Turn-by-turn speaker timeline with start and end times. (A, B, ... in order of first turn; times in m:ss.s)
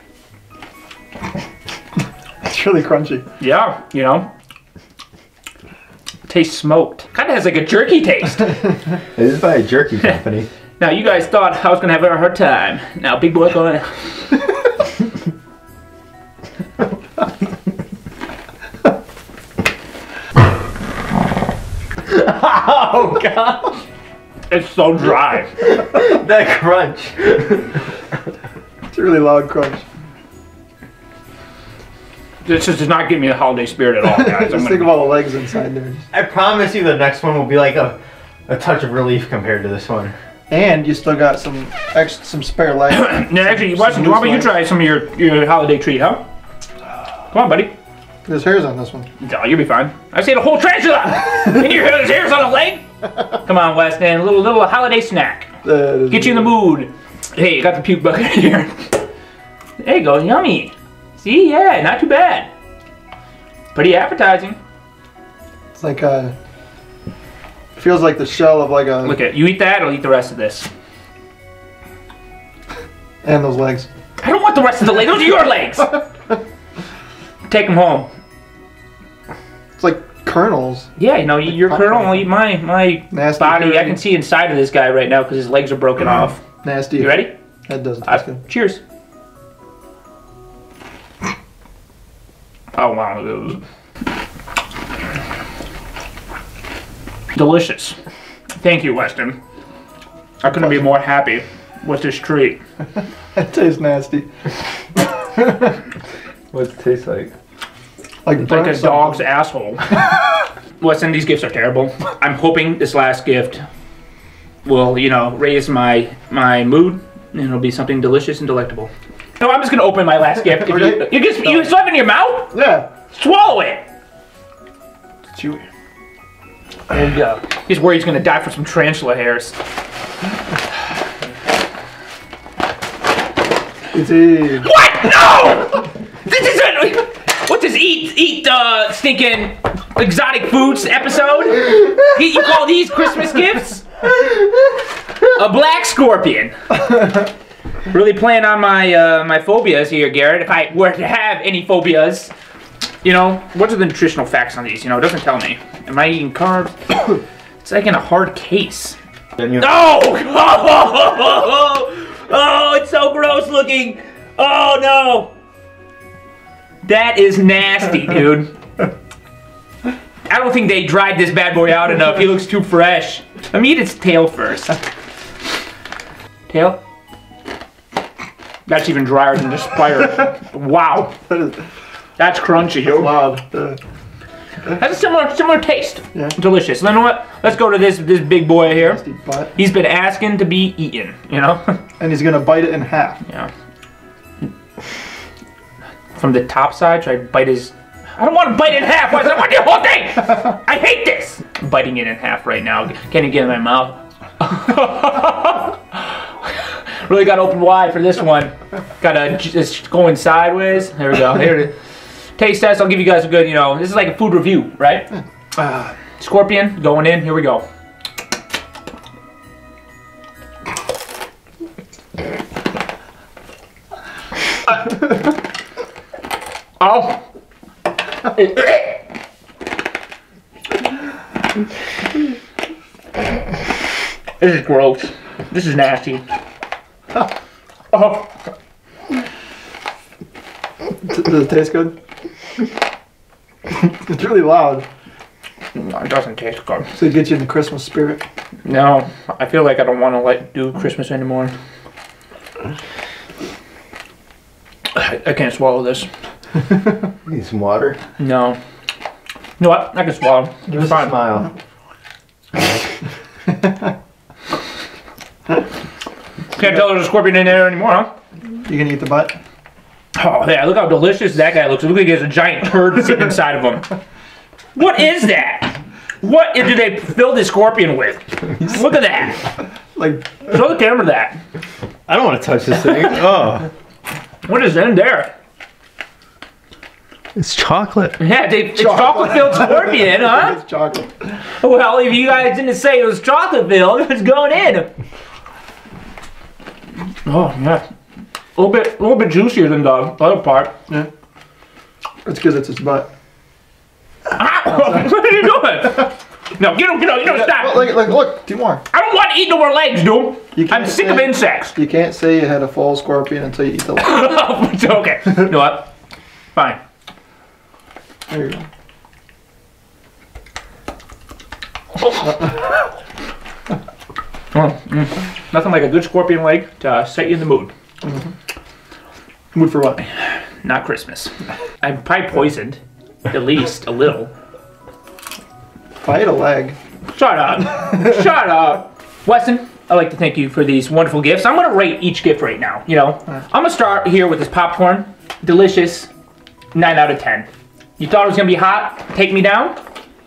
0:02.4-0:03.2 A
0:03.4-0:04.3 B
0:06.3-0:08.6 B
0:09.2-0:10.5 C
0:10.8-0:14.5 B
0:22.1-0:23.7 C
0:24.5-0:25.7 B
0:25.6-0:27.8 C
0:28.9-0:29.8 A
0:32.4-0:35.0 B
0:34.1-0:36.1 A
0:36.1-0:40.2 C
0:40.5-0:44.5 A
0:42.9-0:46.2 B
0:47.3-0:47.7 B
0:48.3-0:49.1 A
0:49.2-0:55.5 B
0:55.6-0:56.6 A
0:56.1-0:59.0 B
0:59.8-1:02.5 B
1:03.7-1:04.6 B
1:05.8-1:06.3 A
1:07.8-1:09.2 A
1:09.0-1:10.7 B
1:13.2-1:13.9 A
1:14.2-1:16.0 B
1:17.5-1:18.1 B
1:19.8-1:20.9 A
1:21.0-1:26.4 B
1:21.5-1:22.3 A
1:23.1-1:24.0 A
1:26.6-1:28.4 A
1:27.0-1:27.3 B
1:28.0-1:28.8 B
1:32.7-1:33.6 B
1:37.3-1:38.0 B
1:38.6-1:39.4 B
1:40.4-1:42.6 B
1:40.5-1:40.7 A
1:43.4-1:44.3 A
1:45.2-1:45.8 A
1:46.5-1:47.3 C
1:48.2-1:49.3 A
1:48.4-1:50.1 B
1:50.8-1:53.6 B
1:54.6-2:02.6 B
2:00.5-2:01.7 A
2:02.5-2:02.9 A
2:03.1-2:03.8 B
2:05.3-2:05.6 A
2:06.9-2:09.6 B
2:13.9-2:14.7 A
2:14.6-2:24.2 B
2:25.2-2:26.6 B
2:27.9-2:32.3 B
2:33.0-2:39.0 B
2:39.4-2:39.7 C
2:39.6-2:45.3 B
2:46.8-2:48.5 B
2:50.3-2:54.8 B
2:56.5-2:56.8 B
2:58.7-3:01.2 B
3:01.3-3:01.6 A
3:02.2-3:03.2 B
3:02.8-3:03.8 A
3:04.8-3:09.0 B
3:08.7-3:09.5 A
3:09.6-3:11.8 B
3:12.0-3:13.2 A
3:16.2-3:31.8 B
3:32.4-3:37.6 B
3:46.8-3:47.2 B
3:48.3-3:49.0 B
3:54.4-3:56.2 B
3:57.9-3:58.3 B
4:01.0-4:02.0 A
4:03.7-4:04.9 A
4:05.8-4:06.9 B
4:07.0-4:08.2 A
4:08.7-4:11.5 B
4:14.9-4:16.1 B
4:17.2-4:18.0 C
4:18.2-4:18.6 B
4:19.6-4:21.1 B
4:20.7-4:21.5 C
4:26.5-4:28.1 B
4:28.7-4:29.4 A
4:30.2-4:33.9 B
4:34.8-4:39.5 B
4:40.0-4:40.5 A
4:40.4-4:41.4 B
4:42.1-4:43.7 C
4:44.4-4:45.3 B
4:47.4-4:48.2 C
4:48.2-4:50.6 B
4:48.8-4:51.4 A
4:51.6-4:54.9 B
4:57.2-4:57.8 B
4:58.6-5:00.7 B
5:02.2-5:03.1 A
5:04.3-5:08.0 B
5:04.7-5:05.1 A
5:07.2-5:08.8 A
5:08.9-5:11.7 B
5:10.6-5:14.3 A
5:14.0-5:15.9 B
5:16.6-5:16.8 B
5:18.3-5:18.6 A
5:22.2-5:22.6 A
5:24.5-5:27.7 B
5:28.0-5:28.3 A
5:29.5-5:30.0 A
5:30.0-5:34.3 B
5:36.0-5:36.8 A
5:37.1-5:46.1 B
5:46.7-5:49.8 B